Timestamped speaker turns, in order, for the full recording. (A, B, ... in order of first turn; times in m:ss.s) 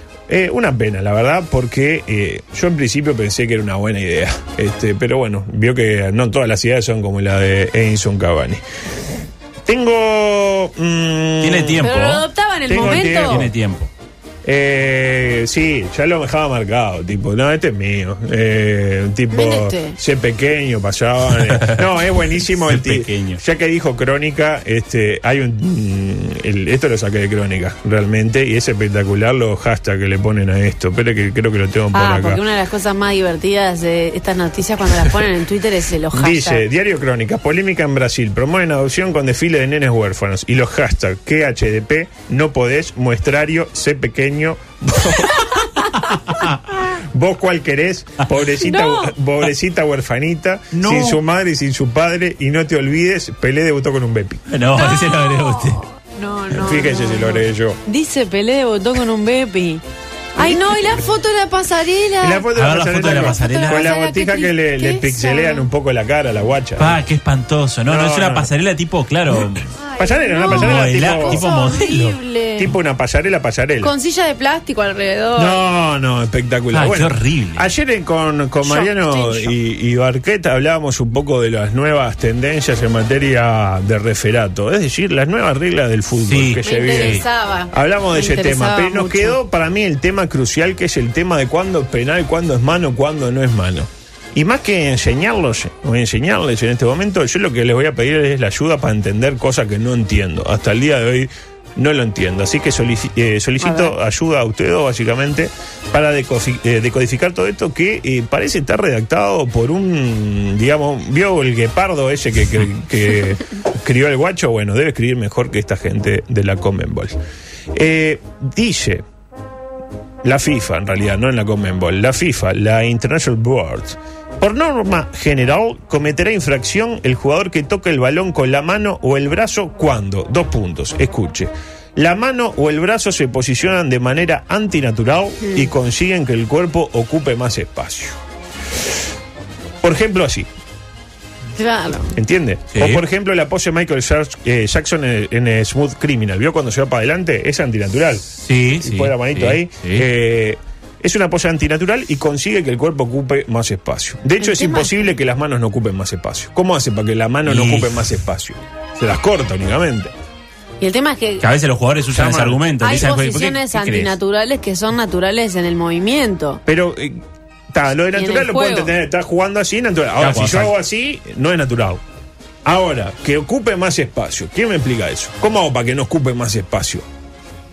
0:00.3-0:08.6 A
0:09.7-0:11.9 A
0:11.4-0:13.9 B
0:11.8-0:13.5 C
0:12.7-0:13.5 A
0:14.4-0:32.4 A
0:19.3-0:20.0 C
0:21.6-0:21.8 B
0:22.7-0:23.4 B
0:31.9-0:36.6 C
0:36.1-0:45.6 A
0:46.9-0:54.4 A
0:48.6-0:49.1 C
0:50.7-0:51.2 B
0:54.5-0:55.8 B
0:54.8-0:59.8 C
0:56.5-0:57.8 A
1:00.4-1:02.5 C
1:00.4-1:00.9 A
1:02.2-1:07.0 A
1:02.6-1:03.9 B
1:03.0-1:05.7 C
1:06.8-1:09.7 B
1:07.9-1:08.5 A
1:09.8-1:12.7 C
1:10.0-1:11.4 A
1:10.5-1:12.2 B
1:12.6-1:13.9 A
1:13.8-1:15.6 C
1:15.4-1:57.2 A
1:16.7-1:17.7 B
1:18.6-1:19.5 C
1:26.3-1:27.2 B
1:26.6-1:29.4 C
1:43.6-1:43.9 C
1:57.7-1:59.0 A
2:00.2-2:18.2 A
2:15.4-2:15.7 C
2:19.8-2:20.5 A
2:21.6-2:22.2 C
2:22.2-2:40.1 A
2:22.7-2:23.0 B
2:28.4-2:30.1 B
2:34.4-2:34.9 C
2:37.5-2:38.0 B
2:40.8-2:41.4 C
2:41.4-2:44.1 B
2:42.1-2:42.6 A
2:42.8-2:46.6 C
2:46.7-2:47.2 A
2:47.7-2:52.0 A
2:48.1-2:48.9 C
2:50.2-2:50.7 B
2:52.6-2:57.1 A